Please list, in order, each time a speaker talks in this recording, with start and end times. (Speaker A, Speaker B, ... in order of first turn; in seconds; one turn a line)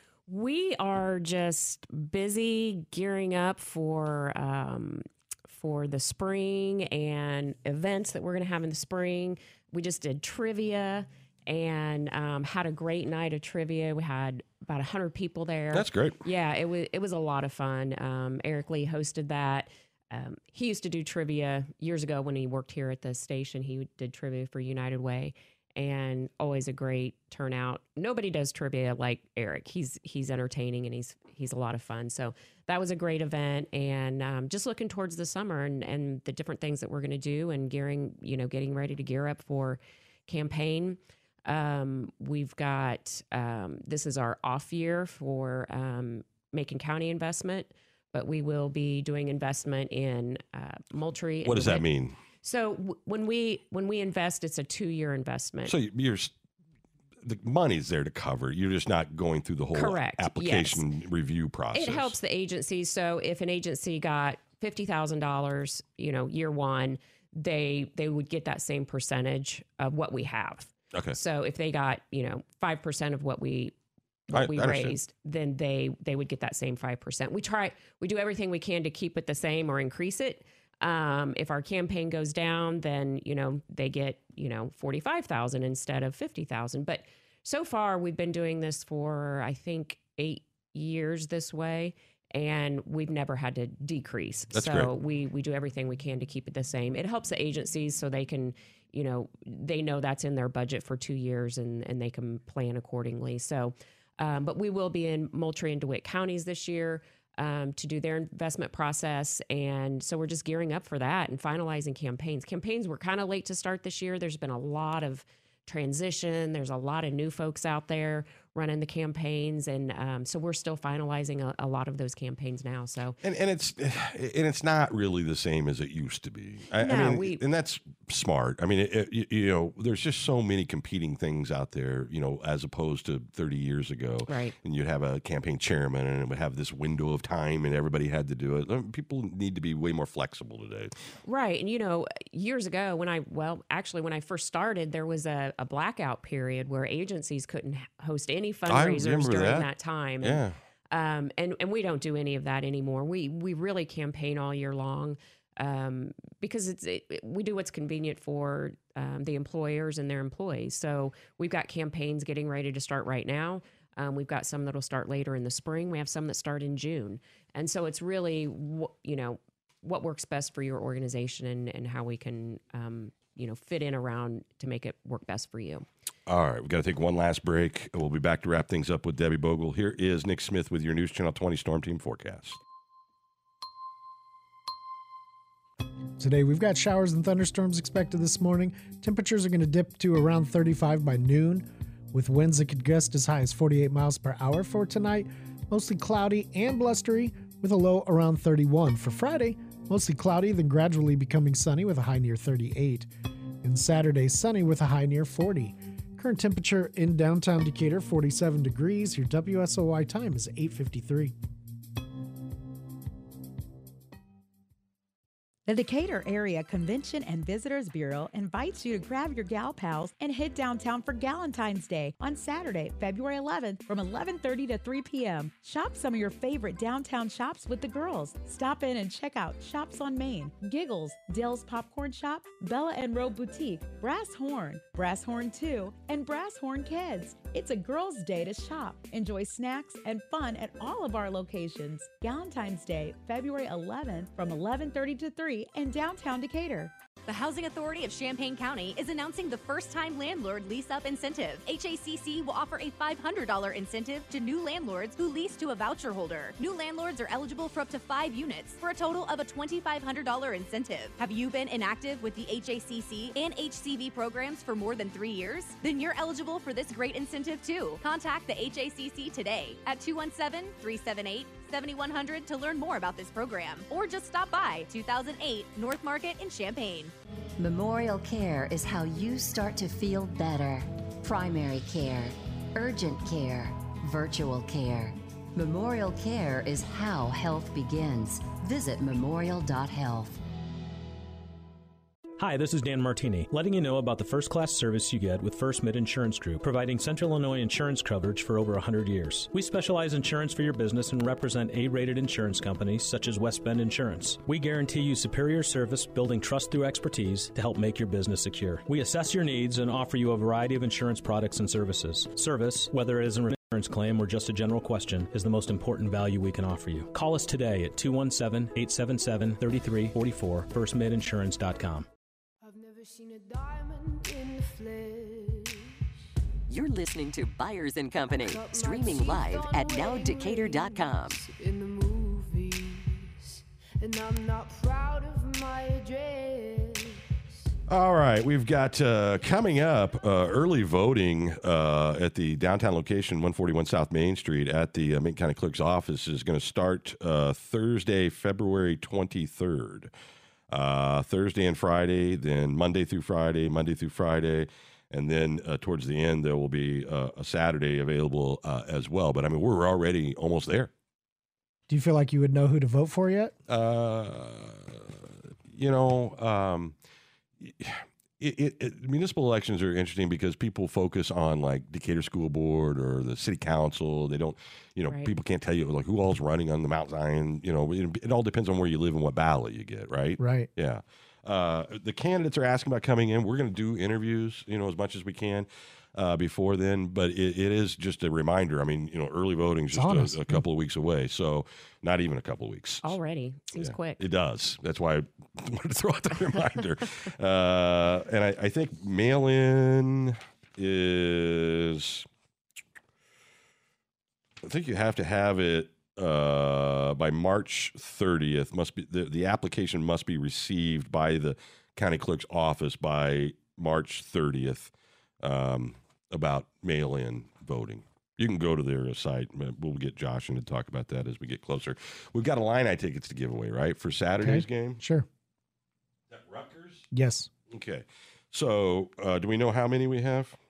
Speaker A: 0.3-51.9
Speaker B: 15.7-16.2
Speaker B: 51.5-52.2
Speaker A: 52.4-55.8
Speaker B: 55.7-56.3
Speaker B: 57.2-62.1
Speaker A: 59.7-60.8
Speaker A: 61.7-73.7
Speaker A: 74.3-123.2
Speaker B: 74.3-75.0
Speaker B: 94.5-94.9
Speaker B: 123.2-140.9
Speaker A: 126.8-127.4
Speaker A: 134.3-134.6
Speaker A: 141.2-175.9
Speaker B: 148.7-149.7
Speaker B: 150.2-150.6
Speaker B: 176.3-182.6
Speaker C: 186.2-203.1
Speaker C: 203.6-211.3
Speaker D: 215.7-246.9
Speaker E: 247.3-277.1
Speaker F: 277.6-290.4
Speaker G: 292.4-322.1
Speaker H: 322.6-325.9
Speaker I: 326.7-331.4
Speaker H: 328.3-337.4
Speaker B: 337.9-350.1
Speaker B: 350.7-360.9
Speaker C: 361.9-363.5
Speaker B: 363.7-366.9
Speaker B: 367.6-393.2
Speaker A: 375.1-375.3
Speaker C: 380.4-380.7
Speaker C: 389.9-390.6
Speaker A: 393.0-394.2
Speaker B: 393.8-402.3
Speaker B: 404.6-425.0
Speaker C: 424.4-425.3
Speaker B: 426.3-427.1
Speaker C: 427.1-427.5
Speaker B: 427.7-430.6